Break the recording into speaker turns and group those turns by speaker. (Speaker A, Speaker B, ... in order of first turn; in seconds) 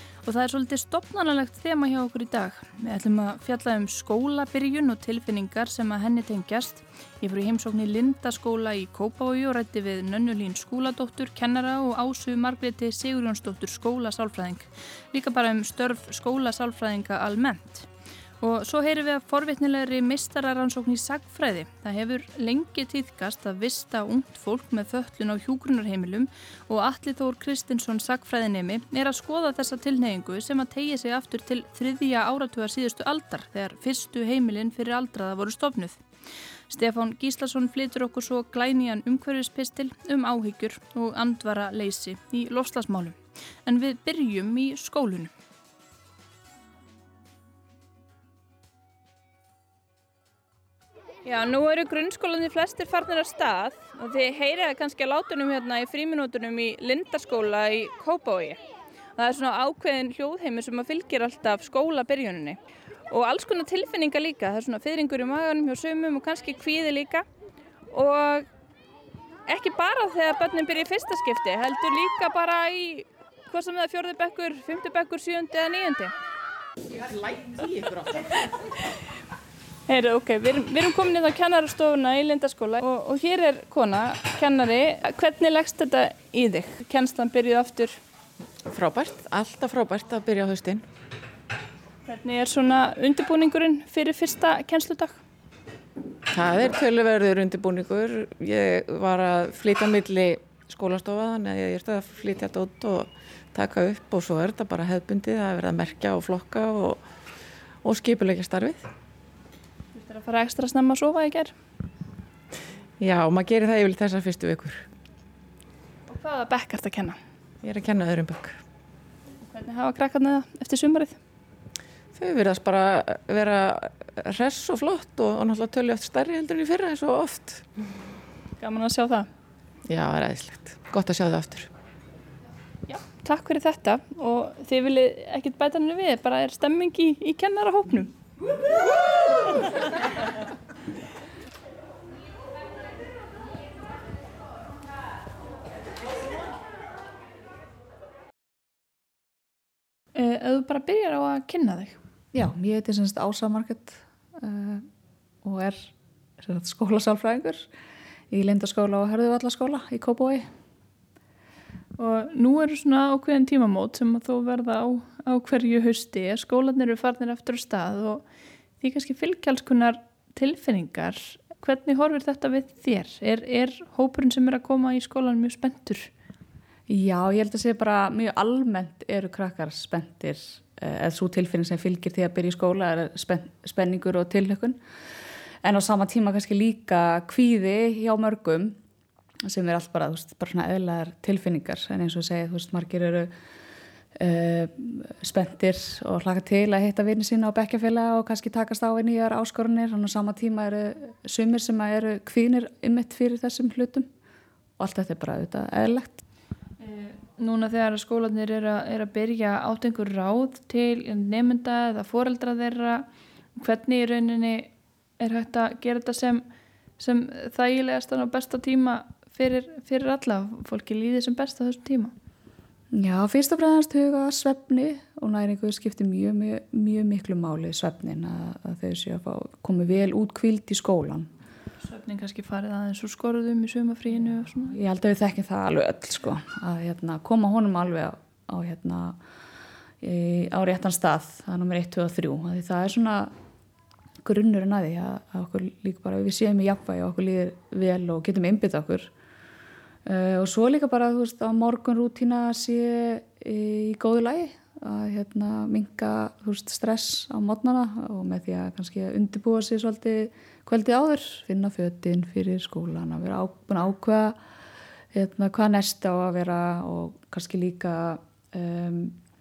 Speaker A: 0.2-17.9, 18.4-36.0, 36.7-45.3, 51.2-58.6, 59.2-62.6, 63.1-67.2, 67.9-68.5, 69.5-76.1, 79.9-88.0, 92.0-95.2, 109.9-111.6, 116.1-117.2, 119.5-121.2, 128.6-129.3, 132.9-138.2, 150.2-152.0, 162.0-168.2, 168.8-176.1, 206.8-216.5, 217.0-222.1, 231.8-234.8
Speaker B: 88.7-90.9, 96.3-107.1, 107.8-108.9, 113.0-114.9, 117.6-118.6, 122.1-127.7, 129.8-131.7
Speaker C: 152.3-154.9, 155.4-157.7, 158.3-160.5, 176.9-184.8, 185.6-188.8, 189.4-193.3, 194.2-204.1, 204.8-206.2, 222.9-231.3, 234.7-239.2, 240.0-243.3, 244.2-249.1, 250.1-264.4, 265.1-269.2